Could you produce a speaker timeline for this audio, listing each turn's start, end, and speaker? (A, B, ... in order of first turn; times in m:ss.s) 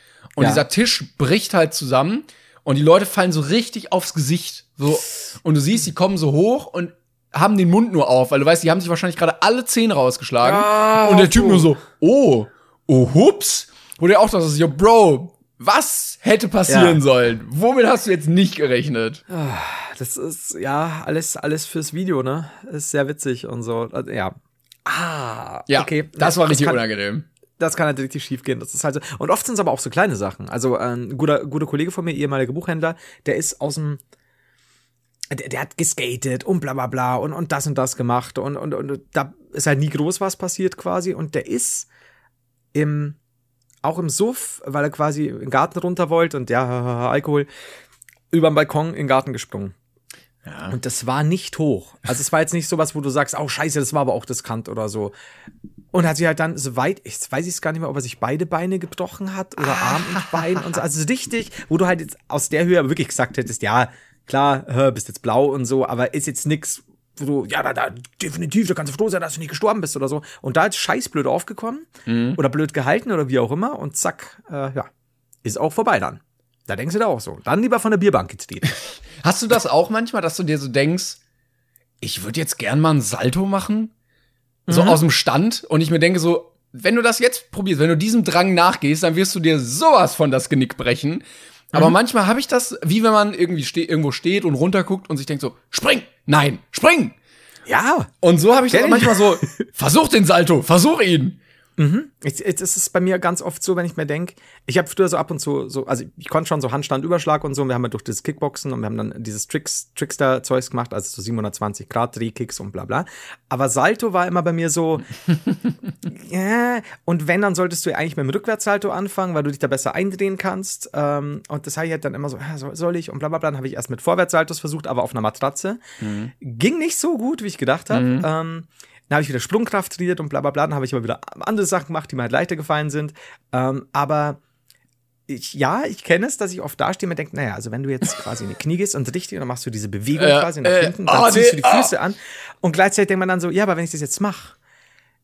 0:00.4-0:19.2 A
0:00.4-0:00.6 B
0:10.4-0:11.7 B
0:16.7-0:17.0 B
0:19.3-0:26.8 B
0:25.7-0:27.2 A
0:27.6-0:34.0 B
0:35.3-0:41.9 B
0:42.7-0:43.2 B
0:43.8-0:47.5 B
0:48.3-0:49.7 B
0:50.4-0:50.8 A
0:50.7-0:55.1 B
0:55.9-1:14.9 B
1:12.1-1:12.4 A
1:15.4-1:18.7 B
1:18.7-1:21.2 A
1:22.0-1:23.9 A
1:24.7-1:25.0 B
1:24.7-1:37.1 A
1:37.7-1:38.1 B
1:38.2-1:41.4 A
1:38.7-1:39.5 B
1:41.8-1:55.1 B
1:56.0-2:05.8 B
2:06.0-2:06.3 A
2:06.4-2:14.4 B
2:07.9-2:08.3 A
2:15.3-2:24.5 B
2:20.2-2:21.9 A